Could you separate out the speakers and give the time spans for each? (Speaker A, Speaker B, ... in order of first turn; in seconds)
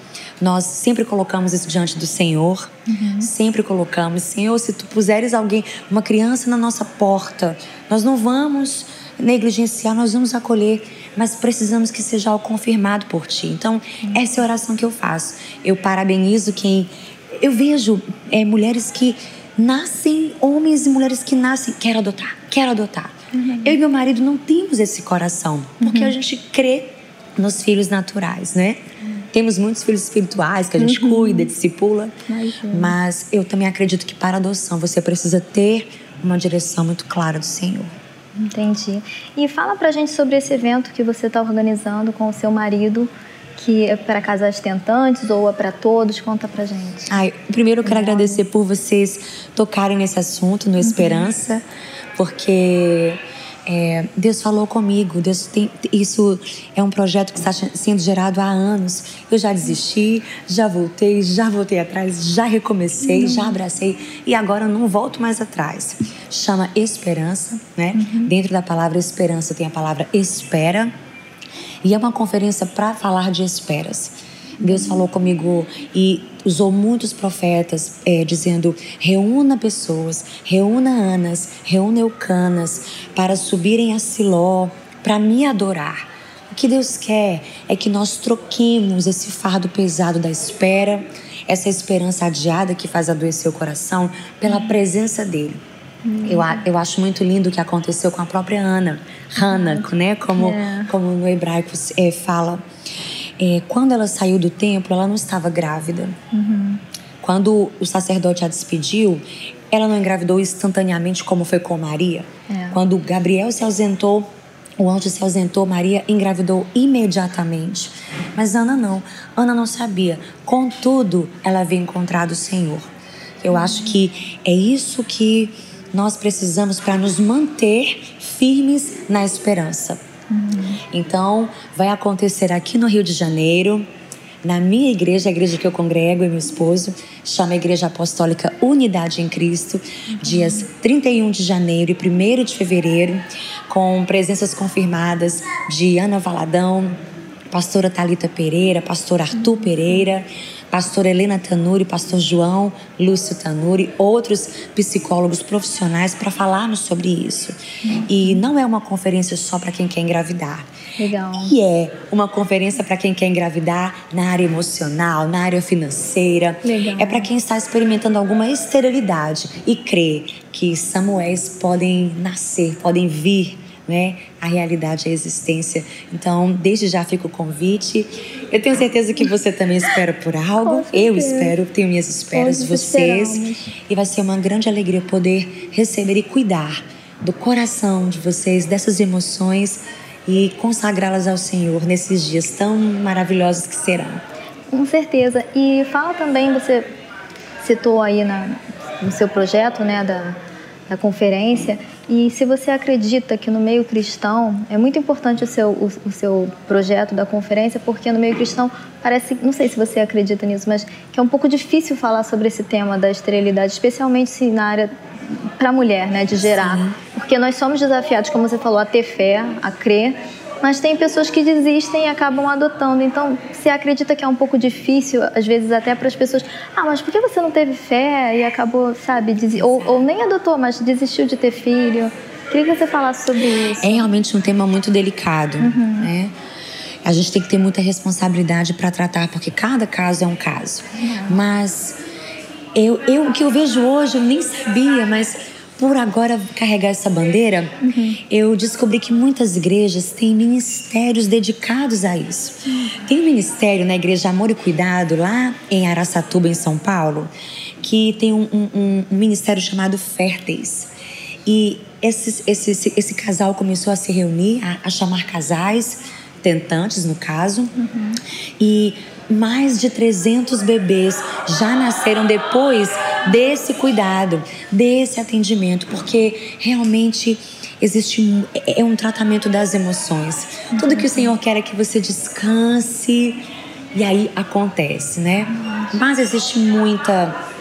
Speaker A: 0.4-28.8, 29.3-32.1, 32.7-37.9, 47.1-51.6, 52.1-70.9, 71.8-95.6, 96.3-102.6, 103.4-106.2, 107.2-114.3, 114.8-122.9, 123.4-130.0, 130.9-133.9, 134.4-147.0, 147.5-160.7, 161.3-194.2, 216.4-217.0, 233.8-236.3, 237.0-242.0, 242.8-247.7, 248.3-257.3, 257.8-260.9, 261.5-267.7, 268.6-287.4
Speaker B: 2.9-3.3, 23.3-23.8, 25.8-26.2, 30.8-31.5, 32.3-33.0, 38.4-47.1, 47.8-48.5, 50.8-51.3, 63.0-63.6, 67.9-68.3, 74.6-75.0, 96.0-96.6, 99.4-100.9, 106.3-106.8, 112.5-112.8, 123.5-124.0, 130.3-130.8, 140.1-140.7, 149.4-149.8, 157.8-158.4, 161.0-161.6, 166.6-167.3, 180.6-181.6, 182.3-183.7, 194.7-196.9, 197.6-200.4, 200.9-234.1, 235.6-236.1, 241.0-241.4, 247.8-248.2, 252.7-253.0, 267.8-268.2, 280.7-281.3, 285.5-286.0